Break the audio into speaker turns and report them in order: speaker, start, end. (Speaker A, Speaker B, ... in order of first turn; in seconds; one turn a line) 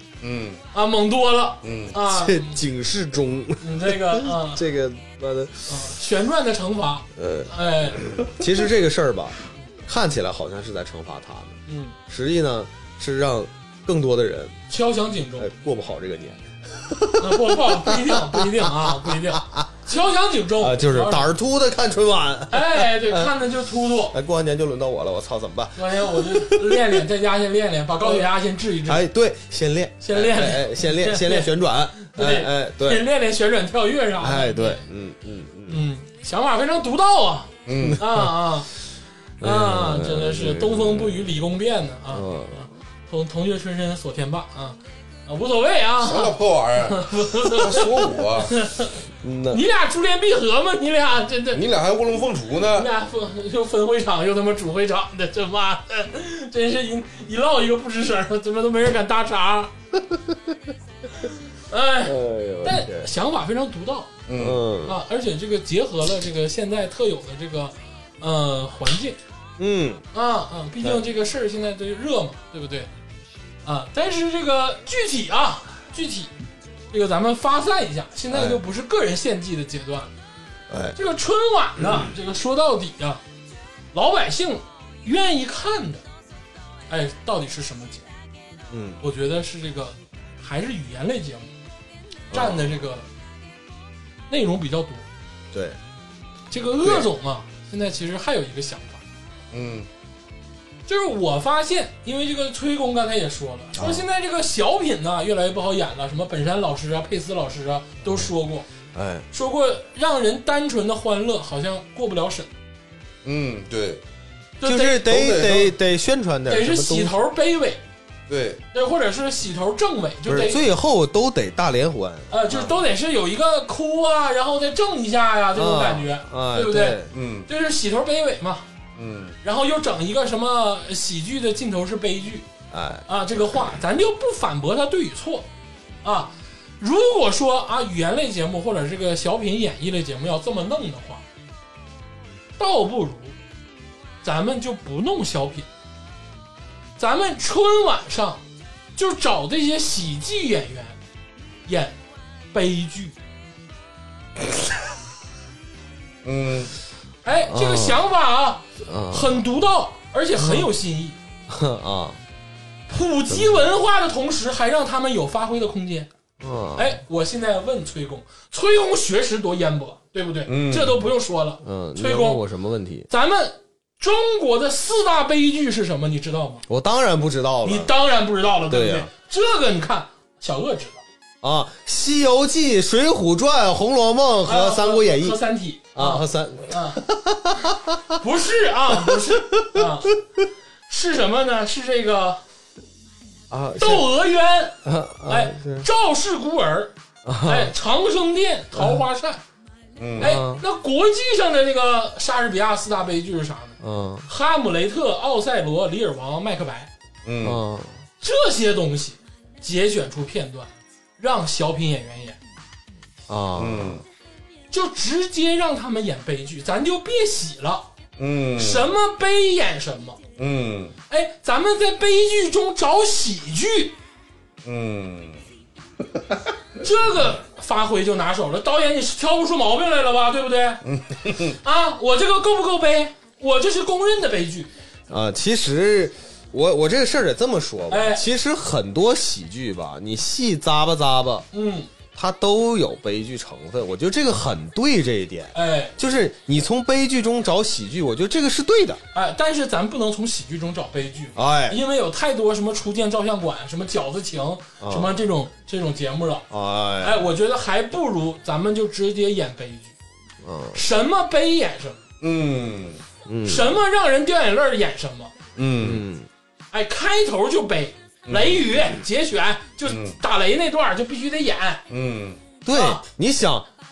Speaker A: 0.2-0.6
Speaker B: 0.7-2.6
Speaker A: 1.6-1.9
Speaker C: 1.9-5.8
Speaker B: 3.6-4.6
Speaker B: 5.7-8.0
Speaker C: 7.1-14.6
Speaker B: 11.7-11.9
Speaker B: 14.7-15.5
Speaker C: 15.4-19.7
Speaker B: 17.2-21.3
Speaker C: 20.6-23.3
Speaker B: 22.5-24.2
Speaker C: 24.1-27.0
Speaker B: 25.8-29.1
Speaker C: 28.9-33.0
Speaker B: 30.0-34.8
Speaker C: 34.2-35.9
Speaker B: 35.7-38.7
Speaker A: 37.6-38.0
Speaker C: 37.7-38.3
Speaker C: 39.4-41.4
Speaker B: 39.4-47.9
Speaker C: 42.1-42.7
Speaker A: 46.0-48.5
Speaker B: 48.5-48.9
Speaker C: 49.2-49.6
Speaker B: 49.5-51.6
Speaker A: 51.5-52.9
Speaker B: 52.7-59.7
Speaker C: 60.1-60.5
Speaker B: 61.7-64.1
Speaker C: 62.0-63.1
Speaker A: 64.3-64.6
Speaker C: 64.3-65.0
Speaker B: 64.8-69.2
Speaker C: 69.6-70.0
Speaker B: 70.1-72.9
Speaker B: 73.7-76.3
Speaker B: 76.9-80.1
Speaker C: 78.3-78.6
Speaker C: 80.7-81.0
Speaker B: 81.0-83.2
Speaker B: 83.9-86.0
Speaker B: 86.9-88.1
Speaker C: 88.7-89.0
Speaker B: 89.0-91.5
Speaker C: 92.3-92.8
Speaker B: 92.3-93.1
Speaker B: 94.3-95.0
Speaker C: 95.5-95.8
Speaker B: 96.5-99.0
Speaker C: 96.8-97.1
Speaker A: 99.5-99.9
Speaker B: 100.9-108.7
Speaker C: 103.8-104.1
Speaker C: 108.9-109.3
Speaker B: 109.3-112.5
Speaker A: 113.2-114.0
Speaker B: 114.6-115.1
Speaker C: 114.6-117.2
Speaker A: 115.0-115.7
Speaker B: 116.5-117.8
Speaker A: 118.3-118.6
Speaker B: 118.7-120.6
Speaker C: 120.3-122.7
Speaker B: 122.3-128.6
Speaker C: 125.5-127.1
Speaker A: 127.1-127.5
Speaker A: 128.9-129.3
Speaker B: 129.4-132.4
Speaker C: 132.7-133.1
Speaker B: 133.1-135.4
Speaker B: 136.0-141.2
Speaker B: 142.6-143.3
Speaker B: 144.2-145.7
Speaker B: 147.0-148.4
Speaker B: 148.9-151.0
Speaker B: 151.7-152.0
Speaker B: 152.5-153.1
Speaker A: 156.2-156.7
Speaker B: 157.2-161.2
Speaker C: 157.5-158.0
Speaker C: 158.8-159.4
Speaker C: 160.3-160.7
Speaker C: 161.5-162.2
Speaker B: 162.9-166.1
Speaker C: 163.3-163.6
Speaker C: 166.4-167.0
Speaker B: 166.8-172.4
Speaker A: 170.5-171.1
Speaker C: 171.6-173.1
Speaker B: 173.1-176.6
Speaker C: 176.7-177.9
Speaker B: 177.6-181.0
Speaker C: 178.7-179.1
Speaker C: 181.4-185.4
Speaker B: 184.4-187.0
Speaker C: 185.9-188.2
Speaker B: 188.2-190.1
Speaker C: 188.9-190.0
Speaker B: 190.9-192.4
Speaker C: 193.5-194.1
Speaker B: 193.8-196.9
Speaker C: 194.8-195.9
Speaker C: 197.2-197.7
Speaker B: 197.4-199.4
Speaker C: 198.7-199.0
Speaker A: 200.0-200.3
Speaker C: 200.2-200.6
Speaker B: 200.2-206.9
Speaker C: 203.8-204.3
Speaker A: 207.2-207.6
Speaker C: 207.4-208.0
Speaker B: 208.2-212.4
Speaker C: 213.3-214.0
Speaker A: 213.6-214.0
Speaker B: 214.7-217.9
Speaker A: 218.2-218.9
Speaker B: 218.6-220.2
Speaker A: 220.4-220.9
Speaker B: 221.1-223.9
Speaker A: 224.6-225.4
Speaker B: 226.8-230.8
Speaker A: 230.8-231.6
Speaker B: 231.6-234.7
Speaker C: 235.1-241.4
Speaker B: 237.9-238.3
Speaker B: 241.5-241.9
Speaker C: 242.1-249.0
Speaker B: 245.5-245.9
Speaker B: 249.1-256.4
Speaker C: 251.3-251.8
Speaker C: 254.8-255.2
Speaker C: 256.5-257.3
Speaker B: 257.0-259.9
Speaker C: 260.4-260.9
Speaker B: 260.7-262.0
Speaker A: 262.2-263.0
Speaker C: 263.3-263.8
Speaker B: 263.4-265.3
Speaker A: 265.6-266.1
Speaker C: 265.8-266.3
Speaker B: 266.7-271.8
Speaker A: 268.3-268.9
Speaker A: 269.9-270.2
Speaker A: 271.9-272.4
Speaker C: 272.6-273.7
Speaker B: 272.7-273.0